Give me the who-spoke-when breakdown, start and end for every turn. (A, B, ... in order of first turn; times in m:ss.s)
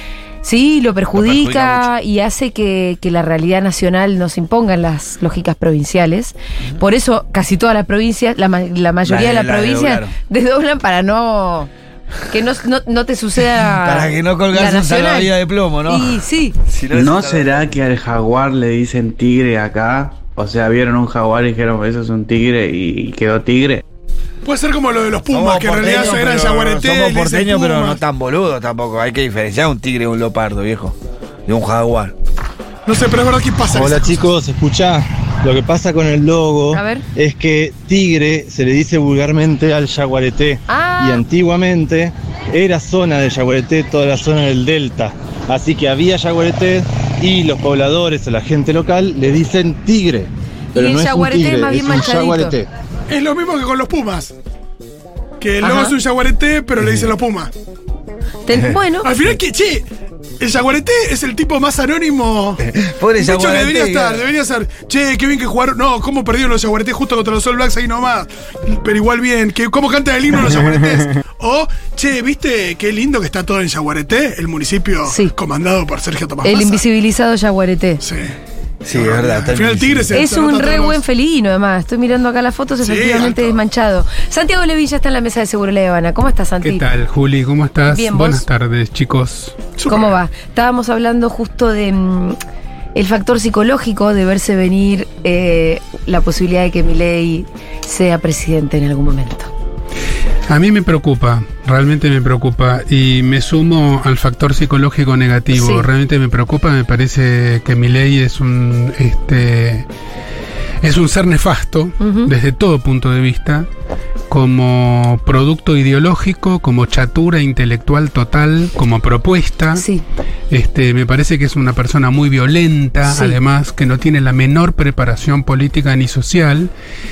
0:00.4-0:11.7 A
0:01.1-0:01.9 B
0:09.0-0:10.1 B
0:12.3-0:15.3 A
0:13.7-0:17.7 B
0:15.9-0:16.6 A
0:16.9-0:23.8 C
0:24.4-0:28.0 D
0:25.3-0:32.1 B
0:32.9-0:34.3 D
0:33.7-0:52.7 E
0:36.7-0:37.0 A
0:40.7-0:41.2 A
0:50.8-0:52.6 A
0:53.1-0:54.3 D
0:55.4-0:57.5 D
0:55.6-0:56.0 A
0:58.5-0:59.1 A
0:59.0-0:59.8 D
1:00.4-1:02.6 D
1:02.6-1:04.3 B
1:03.2-1:16.8 D
1:15.1-1:15.3 A
1:16.4-1:18.0 A
1:18.0-1:18.3 D
1:18.8-1:20.2 B
1:18.9-1:21.0 D
1:20.1-1:26.8 A
1:22.8-1:23.6 D
1:26.6-1:29.6 F
1:27.9-1:28.4 A
1:29.8-1:30.1 D
1:29.9-1:32.4 A
1:33.0-1:39.5 A
1:40.5-1:49.9 F
1:45.5-1:45.9 A
1:50.8-1:53.7 F
1:52.0-1:52.3 A
1:54.3-1:59.8 F
1:59.8-2:00.0 A
2:00.5-2:06.7 F
2:03.0-2:03.4 A